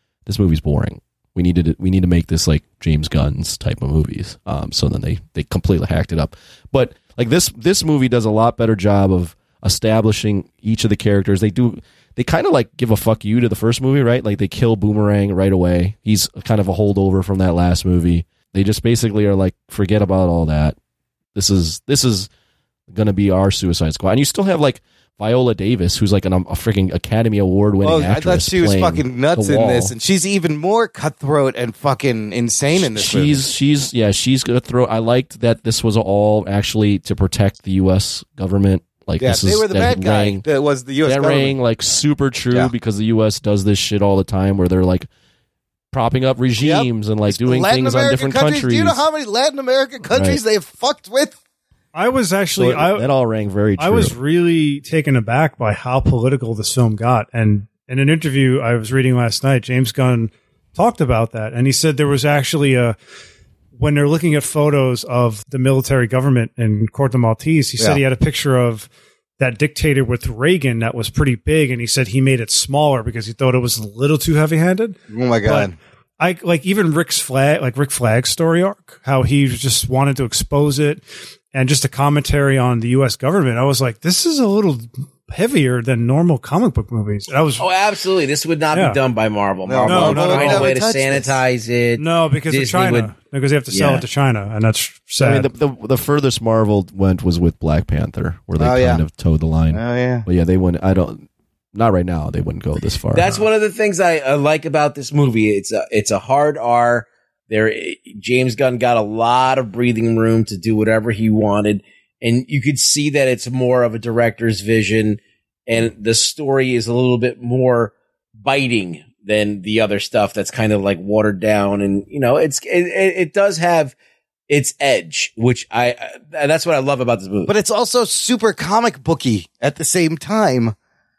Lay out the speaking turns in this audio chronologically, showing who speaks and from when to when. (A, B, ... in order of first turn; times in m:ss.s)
0:00.2-0:20.8 A
0:21.3-0:22.3 A
0:22.9-0:29.9 A
0:27.8-0:33.4 B
0:32.7-0:40.4 A
0:39.2-0:41.6 B
0:41.0-0:45.1 A
0:45.9-0:49.0 A
0:46.6-0:51.3 B
0:50.1-0:50.4 A
0:51.9-0:53.0 C
0:52.5-0:54.2 A
0:53.8-1:03.0 C
1:03.8-1:08.9 C
1:09.4-1:27.7 C
1:15.1-1:15.7 B
1:27.6-1:33.1 D
1:28.7-1:29.0 C
1:29.6-1:31.4 B
1:29.8-1:30.7 C
1:32.0-1:35.4 C
1:33.7-1:34.0 D
1:35.2-1:43.4 A
1:38.6-1:39.0 B
1:39.7-1:40.2 B
1:43.1-2:03.9 D
2:04.5-2:07.5 D
2:07.4-2:10.7 B